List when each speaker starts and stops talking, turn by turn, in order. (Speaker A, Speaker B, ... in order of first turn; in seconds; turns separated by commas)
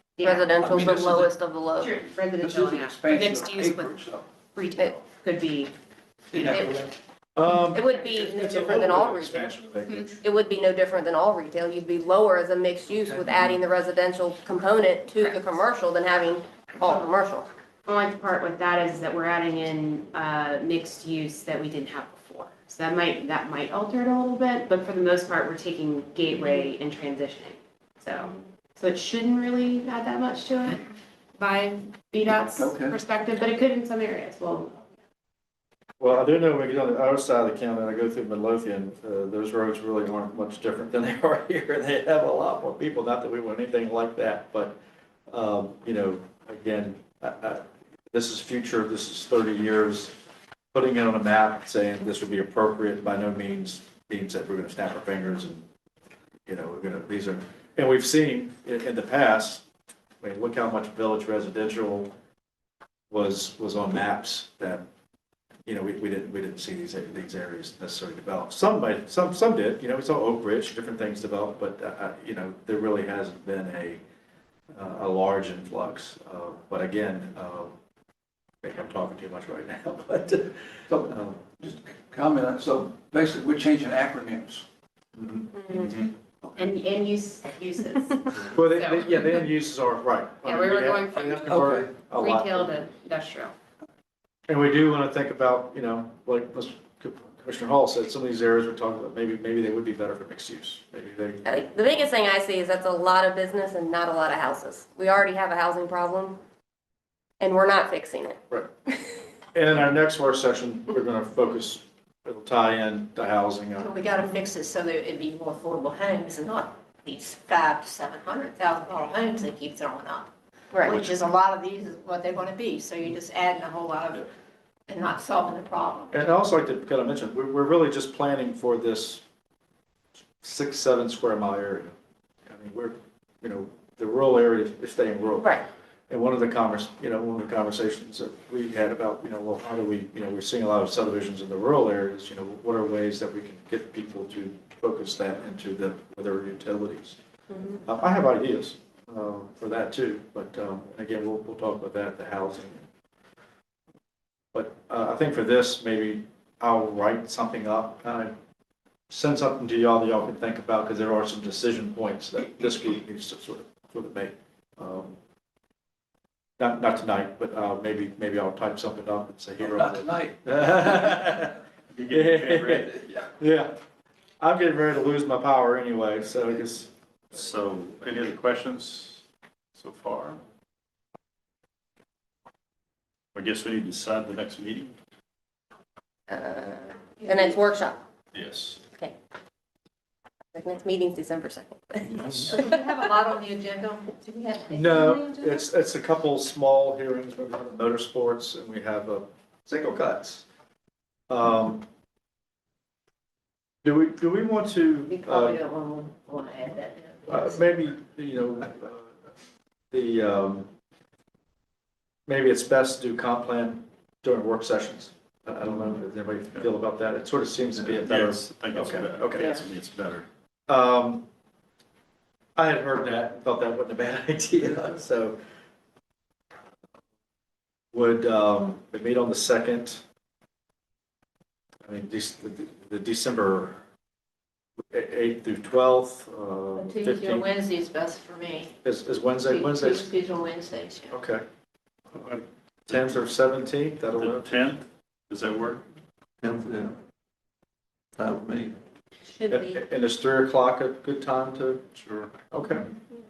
Speaker A: 0.2-0.7, Speaker B: 0.2-1.9, Speaker C: 0.6-1.3, Speaker A: 1.8-4.0, Speaker C: 2.4-4.3, Speaker A: 4.5-5.7, Speaker C: 6.3-6.9, Speaker A: 6.4-6.8, Speaker D: 7.4-10.2, Speaker B: 7.7-9.7, Speaker B: 10.2-17.5, Speaker A: 17.9-30.9, Speaker A: 31.4-34.8, Speaker C: 32.5-33.0, Speaker D: 36.0-44.8, Speaker D: 45.3-50.1, Speaker D: 50.7-55.7, Speaker D: 56.5-59.6, Speaker D: 60.2-62.1, Speaker D: 63.1-64.8, Speaker D: 65.7-74.0, Speaker D: 74.7-77.7, Speaker D: 78.6-81.4, Speaker C: 80.9-84.7, Speaker D: 85.2-85.5, Speaker B: 85.5-85.9, Speaker E: 85.7-86.1, Speaker A: 86.6-89.3, Speaker D: 88.5-92.8, Speaker A: 90.5-93.5, Speaker C: 91.5-91.9, Speaker D: 94.5-102.1, Speaker B: 101.5-106.4, Speaker B: 107.4-109.2, Speaker D: 109.5-113.9, Speaker F: 113.8-120.3, Speaker B: 120.7-121.0, Speaker F: 120.8-124.3, Speaker D: 120.9-121.2, Speaker F: 124.9-126.2, Speaker D: 126.1-129.2, Speaker D: 130.4-131.9, Speaker D: 132.5-147.2, Speaker D: 147.8-152.9, Speaker D: 154.5-158.4, Speaker D: 159.1-165.2, Speaker D: 166.6-171.6, Speaker C: 169.6-171.2, Speaker E: 171.9-173.0, Speaker D: 172.1-173.8, Speaker D: 174.4-176.9, Speaker E: 177.3-179.2, Speaker E: 179.8-180.4, Speaker E: 183.3-185.0, Speaker B: 186.3-188.1, Speaker E: 188.3-188.8, Speaker B: 190.5-192.8, Speaker F: 192.2-195.6, Speaker D: 194.7-200.5, Speaker D: 201.3-201.9, Speaker D: 203.8-205.6, Speaker F: 205.1-207.6, Speaker D: 207.3-209.2, Speaker D: 209.9-210.7, Speaker D: 212.3-219.6, Speaker E: 217.8-220.3, Speaker D: 220.7-221.3, Speaker D: 222.6-225.4, Speaker D: 227.9-230.0, Speaker D: 231.8-233.8, Speaker D: 234.9-237.5, Speaker F: 236.8-238.8, Speaker D: 238.8-240.1, Speaker F: 239.4-241.2, Speaker D: 241.1-241.4, Speaker E: 242.2-243.0, Speaker D: 242.9-244.5, Speaker E: 244.2-245.8, Speaker D: 246.5-246.9, Speaker D: 248.2-248.7, Speaker F: 249.3-249.8, Speaker D: 249.5-251.8, Speaker E: 252.0-252.3, Speaker D: 252.5-252.9